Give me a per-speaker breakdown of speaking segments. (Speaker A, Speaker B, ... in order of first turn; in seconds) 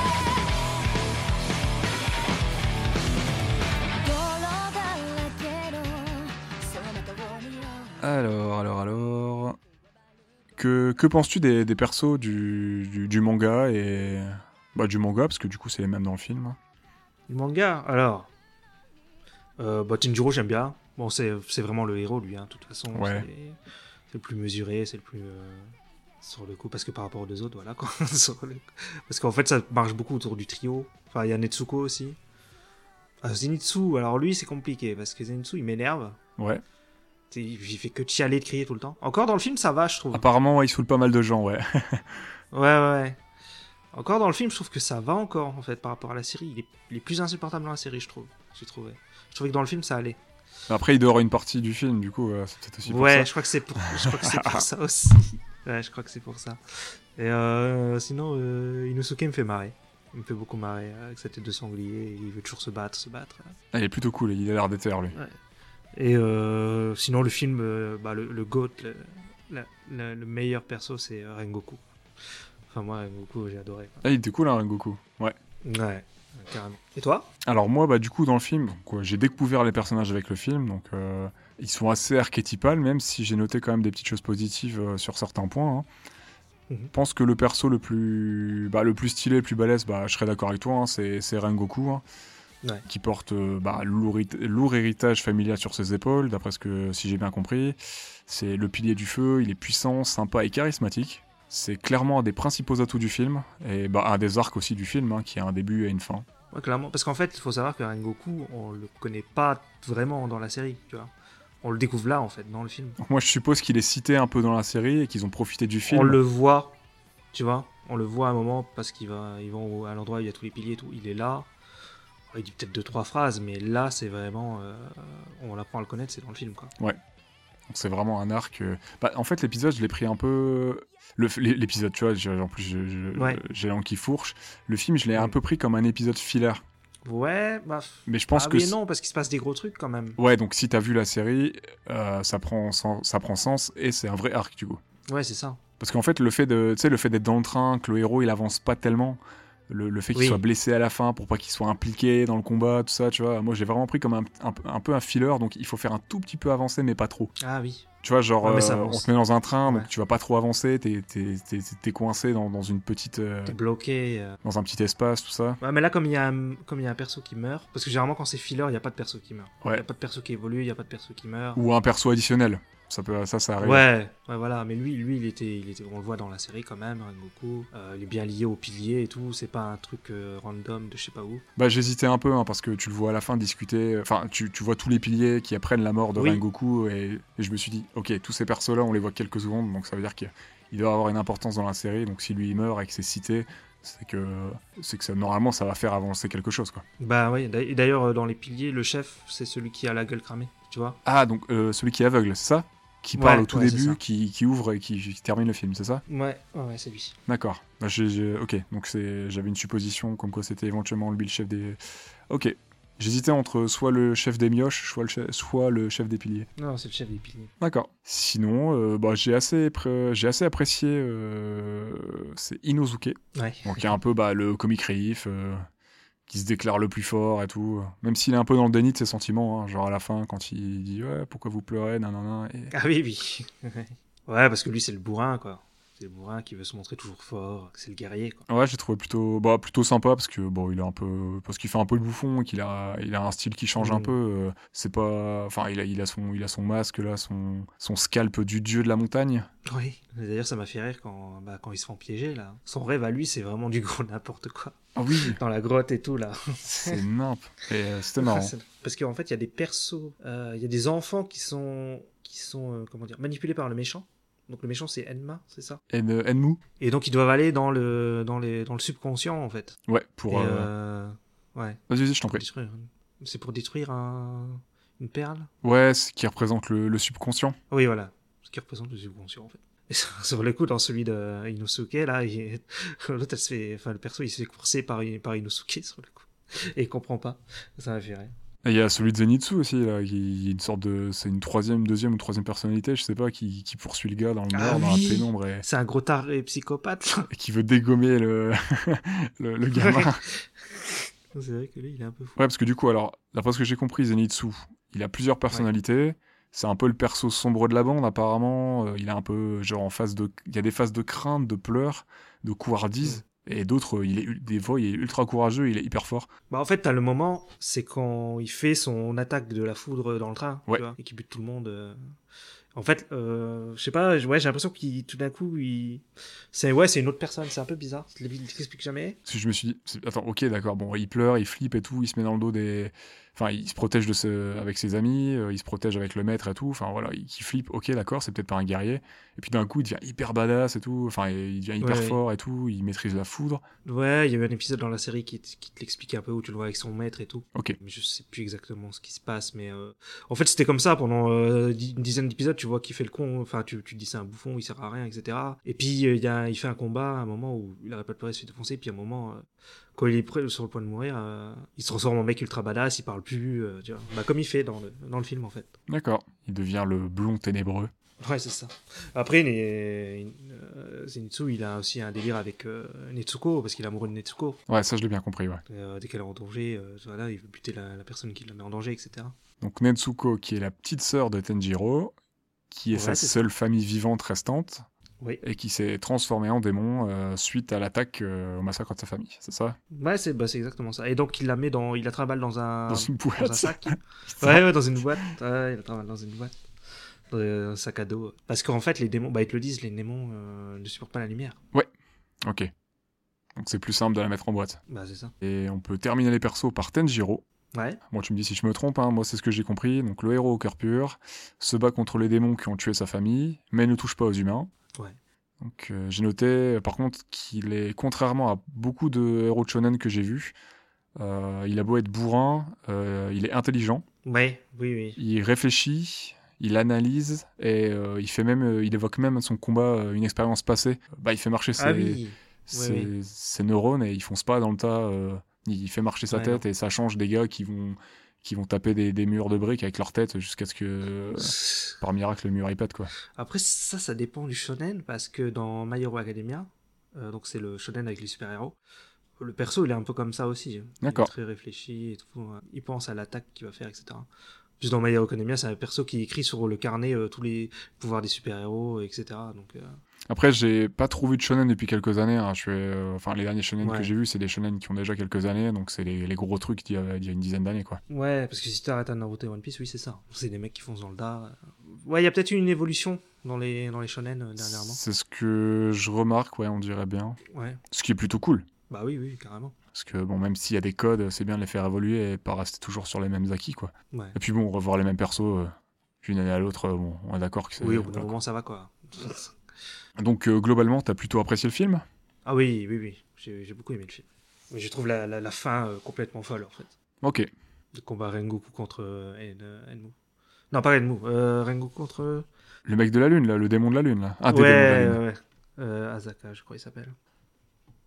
Speaker A: 4.0-8.0
Speaker B: 8.0-9.6, 10.6-16.6, 22.9-23.2, 36.4-36.6, 40.1-42.2, 50.7-54.6, 63.7-65.2, 74.0-75.3, 77.4-85.8, 86.9-92.0, 92.9-106.2, 113.0-116.2, 127.7-136.6, 138.1-138.7, 140.2-144.8, 145.8-157.3, 158.0-163.6, 164.4-165.6, 171.5-173.9, 181.6-196.8, 201.0-206.0, 207.3-216.5, 217.6-225.7, 226.3-232.7, 238.5-249.5, 254.9-255.4, 256.8-258.5, 265.9-266.6, 269.9-270.7, 271.9-272.4, 275.6-277.6, 288.6-295.6, 297.3-300.2, 302.4-316.3, 329.2-343.6, 365.9-367.9, 374.7-375.6, 379.6-382.1, 382.7-384.8, 385.4-389.8, 392.9-394.7, 402.4-402.7, 403.6-404.8, 405.4-407.4, 408.1-414.7, 415.6-420.5, 421.1-424.0, 425.2-443.1, 451.0-451.3, 460.3-468.0, 474.6-477.4, 477.9-478.6, 479.9-488.3, 490.2-492.0, 497.2-497.5, 502.9-505.2
Speaker C: 17.3-18.3, 19.6-23.6, 24.1-32.2, 33.2-36.2, 37.3-40.3, 42.5-43.2, 43.9-50.2, 52.8-63.5, 65.9-74.1, 75.6-77.3, 106.5-113.0, 115.9-116.8, 117.3-121.5, 122.3-126.7, 133.2-133.4, 137.0-140.2, 145.1-145.6, 150.1-150.4, 157.4-157.9, 158.4-159.1, 159.6-159.9, 163.5-164.4, 165.6-171.6, 173.6-181.4, 186.1-186.4, 197.0-201.0, 203.2-204.0, 206.1-207.2, 216.6-217.5, 223.3-223.9, 232.7-238.4, 243.8-244.2, 249.6-257.0, 258.2-265.8, 266.8-269.8, 270.3-275.5, 277.7-288.3, 294.5-297.3, 299.7-302.4, 316.5-322.0, 322.7-329.2, 341.8-342.2, 343.8-365.7, 368.2-374.6, 375.7-379.3, 382.9-383.4, 389.9-396.5, 397.3-401.6, 404.9-405.3, 407.7-408.0, 424.2-425.2, 431.8-433.1, 436.3-436.6, 441.4-441.9, 443.3-448.8, 449.4-454.3, 454.8-460.0, 463.8-464.1, 468.1-475.0, 477.5-477.8, 478.9-479.8, 484.1-484.4, 487.8-489.5, 492.4-496.9, 497.9-500.1, 500.7-502.4, 504.5-507.1